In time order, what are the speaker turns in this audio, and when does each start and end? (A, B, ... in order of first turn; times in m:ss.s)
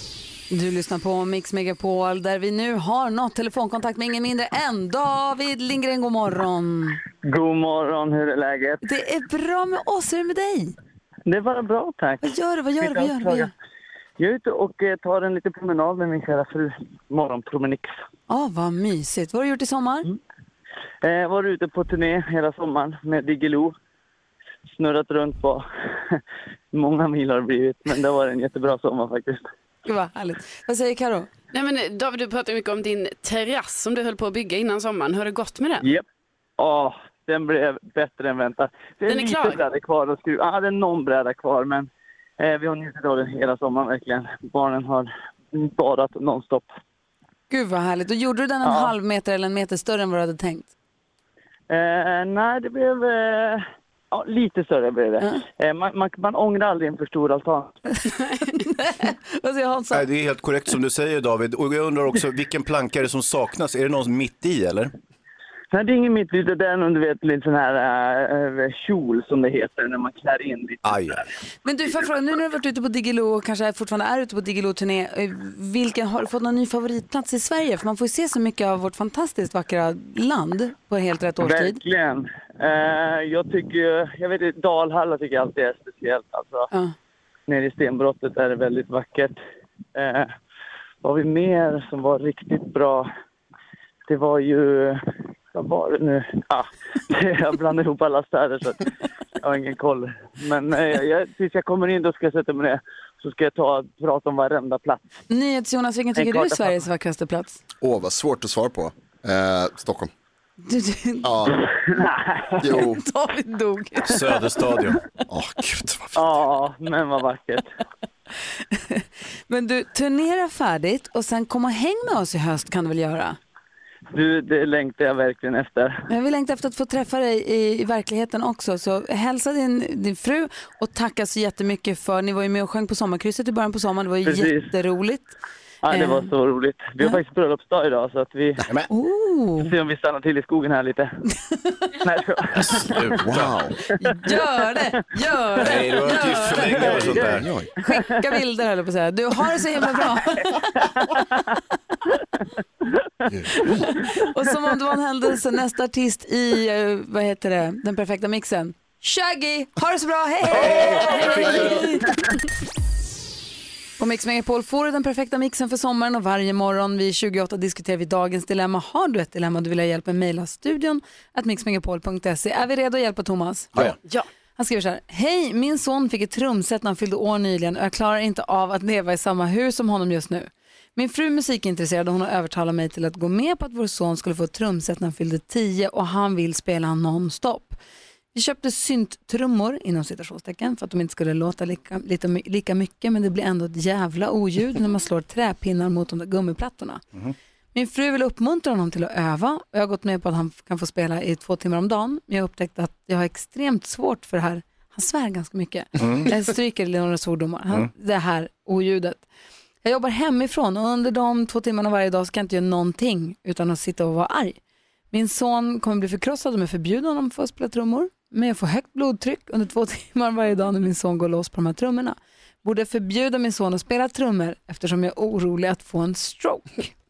0:00.5-0:07.0 A
0:07.2-0:08.8 B
0:08.8-0:10.8 A
0:11.3-0:13.5 B
0:12.2-0:13.5 A
0:14.2-0:17.9 B
0:18.3-0:20.1 A
0:21.0-0:23.8 B
0:24.8-0:26.2 B
0:26.7-0:29.4 B
0:29.9-0:31.3 A
0:31.5-0:35.9 C
0:35.8-0:36.0 B
0:36.6-0:46.7 B
0:39.1-0:39.6 C
0:47.5-0:50.7 A
0:48.6-0:48.9 B
0:51.7-0:57.9 B
0:58.4-1:00.1 A
0:59.9-1:04.9 D
1:05.7-1:11.3 B
1:10.8-1:11.2 D
1:11.6-1:21.8 A
1:21.4-1:26.7 B
1:27.5-1:29.4 B
1:30.0-1:30.3 B
1:31.0-1:33.1 B
1:34.1-1:35.0 B
1:35.5-1:38.9 B
1:39.4-1:45.0 B
1:45.3-1:47.6 A
1:46.2-1:46.8 B
1:47.8-1:50.1 E
1:50.6-1:51.3 A
1:51.2-1:51.6 E
1:51.5-1:52.7 B
1:52.6-1:53.0 E
1:52.7-1:54.3 A
1:54.0-1:55.0 D
1:55.3-1:56.1 E
1:56.1-1:57.7 B
1:58.7-2:03.4 A
2:04.1-2:06.1 B
2:06.1-2:15.4 A
2:14.2-2:14.7 B
2:15.8-2:18.6 B
2:15.9-2:16.3 A
2:18.9-2:19.7 A
2:19.6-2:21.1 B
2:22.0-2:23.2 B
2:22.6-2:23.6 D
2:23.0-2:23.7 E
2:24.0-2:27.2 A
2:25.6-2:27.5 D
2:26.0-2:28.2 B
2:27.2-2:27.7 E
2:27.8-2:30.7 A
2:30.8-2:31.4 B
2:33.3-2:33.7 E
2:33.5-2:42.2 A
2:40.5-2:42.2 B
2:40.6-2:41.7 D
2:44.0-2:53.8 A
2:54.6-3:07.8 A
3:08.3-3:17.0 A
3:17.7-3:29.2 A
3:26.0-3:26.3 D
3:29.8-3:34.6 A
3:35.1-3:46.9 A